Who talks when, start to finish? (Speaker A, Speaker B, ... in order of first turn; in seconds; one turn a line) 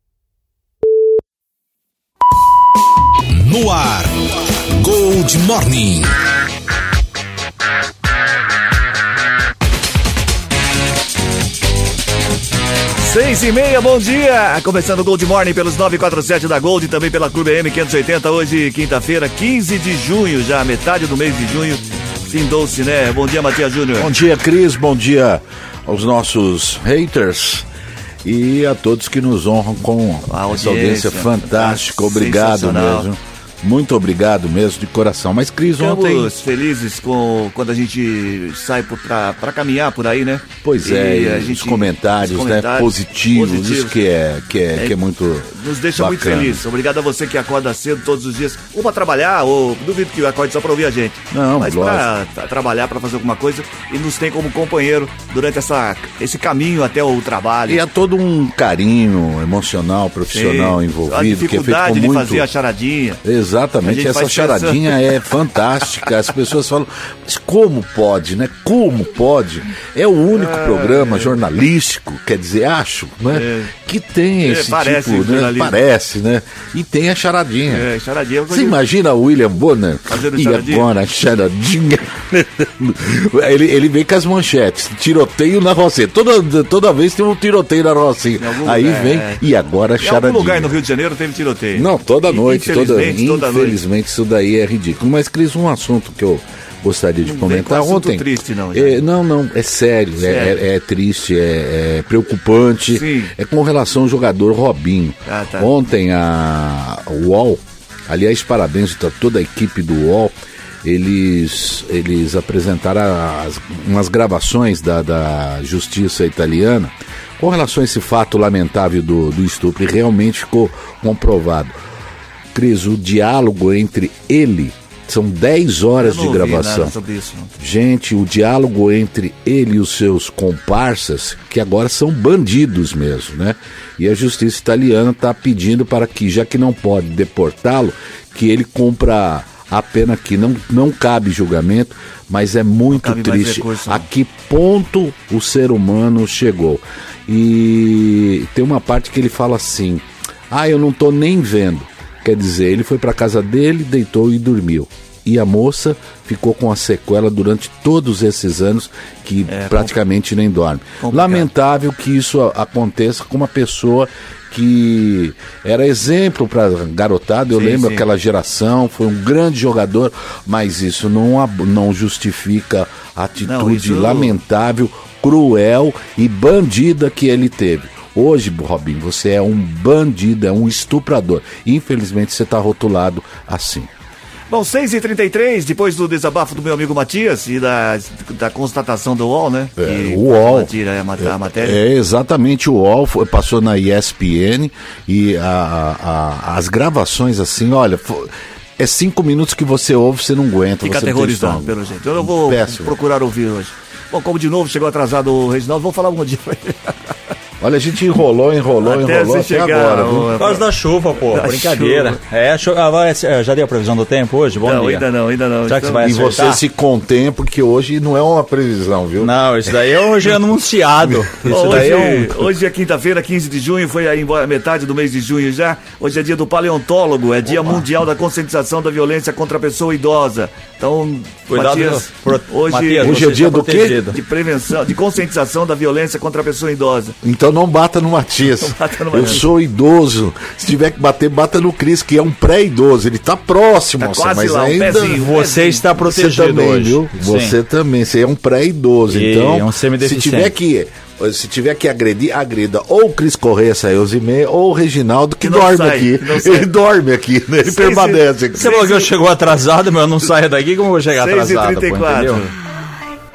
Speaker A: 3.3-4.2
Speaker A: 4.8-6.1
Speaker B: 13.0-24.2
Speaker C: 24.0-27.7
Speaker C: 28.2-36.3
Speaker B: 30.3-33.1
Speaker B: 35.6-44.0
Speaker C: 40.6-46.6
Speaker B: 45.5-57.8
Speaker C: 51.3-52.1
Speaker C: 57.7-62.5
Speaker B: 60.3-63.2
Speaker C: 63.2-77.8
Speaker B: 63.8-65.0
Speaker B: 70.3-71.4
Speaker B: 73.3-73.7
Speaker B: 74.4-75.8
Speaker B: 77.7-78.8
Speaker C: 78.5-90.7
Speaker B: 80.1-80.9
Speaker B: 88.4-89.4
Speaker B: 90.0-93.8
Speaker C: 91.7-121.8
Speaker B: 97.2-99.0
Speaker B: 100.2-100.6
Speaker B: 102.9-103.3
Speaker B: 105.2-105.7
Speaker C: 122.5-127.0
Speaker B: 126.0-127.5
Speaker C: 127.6-183.9
Speaker B: 142.9-144.1
Speaker B: 159.5-159.9
Speaker B: 161.0-161.5
Speaker B: 167.5-168.0
Speaker B: 173.4-174.3
Speaker B: 184.5-191.8
Speaker C: 189.8-202.9
Speaker B: 200.8-207.1
Speaker C: 207.6-210.3
Speaker B: 208.8-210.7
Speaker D: 210.4-215.0
Speaker B: 211.2-212.2
Speaker B: 214.6-216.1
Speaker D: 215.7-216.6
Speaker C: 216.0-219.3
Speaker D: 219.2-222.4
Speaker C: 221.0-222.0
Speaker B: 221.4-237.2
Speaker D: 231.5-234.2
Speaker C: 233.0-234.1
Speaker C: 237.2-245.2
Speaker B: 238.6-239.5
Speaker B: 244.0-245.8
Speaker D: 245.0-247.6
Speaker C: 246.0-258.7
Speaker D: 249.1-250.5
Speaker B: 255.4-256.7
Speaker B: 257.6-259.1
Speaker D: 258.6-262.4
Speaker B: 261.2-262.5